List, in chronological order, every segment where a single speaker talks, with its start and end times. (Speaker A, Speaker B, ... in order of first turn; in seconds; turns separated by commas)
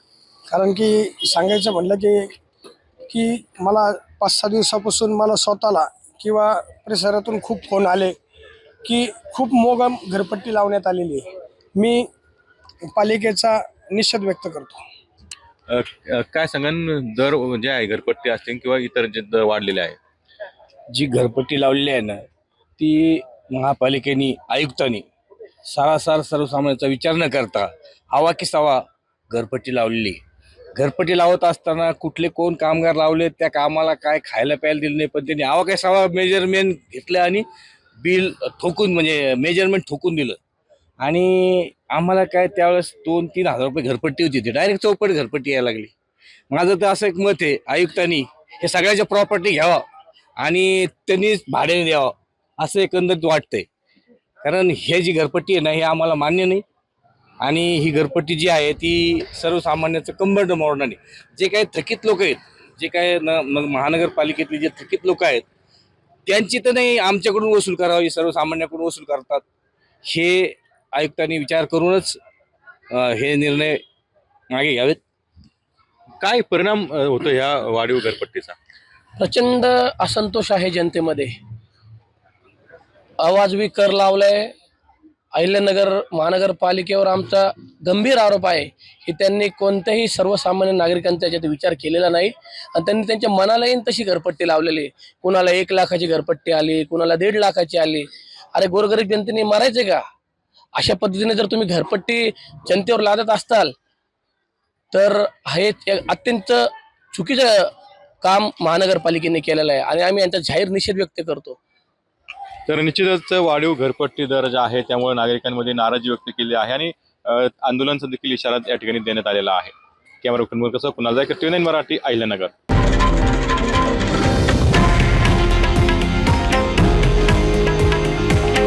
Speaker A: 0.5-2.3, Speaker A: 3.1-8.2, Speaker A: 8.8-12.1, Speaker A: 12.9-14.8, Speaker B: 15.7-20.0, Speaker C: 20.9-22.2, Speaker C: 22.8-25.0, Speaker C: 25.6-30.2, Speaker C: 30.7-37.4, Speaker C: 38.0-40.4, Speaker C: 41.0-45.9, Speaker C: 46.5-49.9, Speaker C: 50.4-53.7, Speaker C: 54.4-56.6, Speaker C: 57.4-65.4, Speaker C: 66.2-69.4, Speaker C: 70.0-72.2, Speaker C: 72.9-73.8, Speaker C: 74.5-75.0, Speaker B: 76.2-78.5, Speaker D: 79.2-81.3, Speaker D: 83.2-84.5, Speaker D: 85.3-100.0, Speaker D: 100.7-103.7, Speaker D: 104.9-111.6, Speaker B: 112.7-122.5